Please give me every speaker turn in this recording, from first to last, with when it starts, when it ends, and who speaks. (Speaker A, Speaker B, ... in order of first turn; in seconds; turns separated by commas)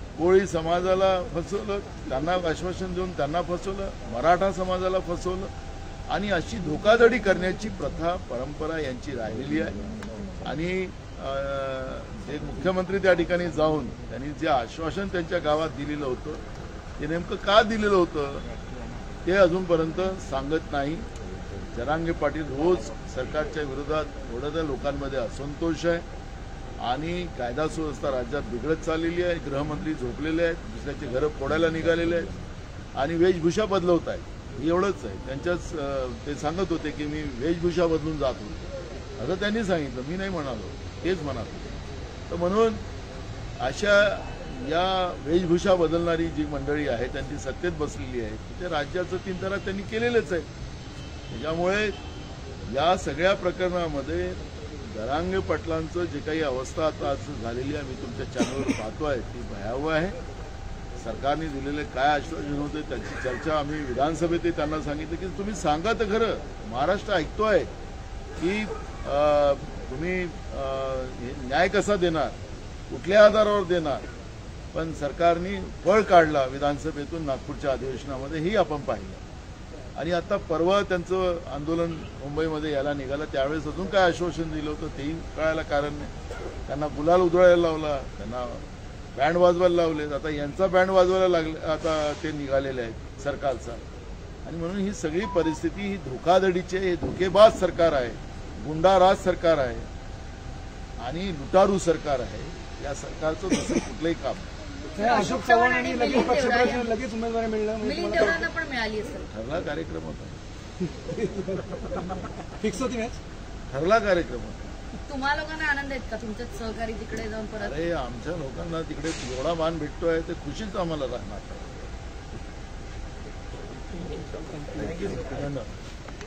Speaker A: 0.2-5.5, Speaker A: 6.1-9.8, Speaker A: 10.4-16.4, Speaker A: 17.0-18.4, Speaker A: 19.2-21.1, Speaker A: 21.6-26.0, Speaker A: 26.8-32.4, Speaker A: 33.0-38.6, Speaker A: 39.2-41.7, Speaker A: 42.3-42.8, Speaker A: 43.6-50.5, Speaker A: 51.3-52.0, Speaker A: 52.6-60.2, Speaker A: 61.0-67.7, Speaker A: 68.4-72.4, Speaker A: 72.9-74.0, Speaker A: 74.7-79.2, Speaker A: 80.0-86.1, Speaker A: 86.7-93.8, Speaker A: 94.4-99.9, Speaker A: 101.0-104.5, Speaker B: 104.9-108.5, Speaker C: 105.1-106.7, Speaker C: 107.9-109.2, Speaker A: 109.3-110.4, Speaker B: 110.9-113.2, Speaker A: 113.7-114.7, Speaker C: 115.1-117.7, Speaker A: 117.6-121.7, Speaker A: 125.0-125.7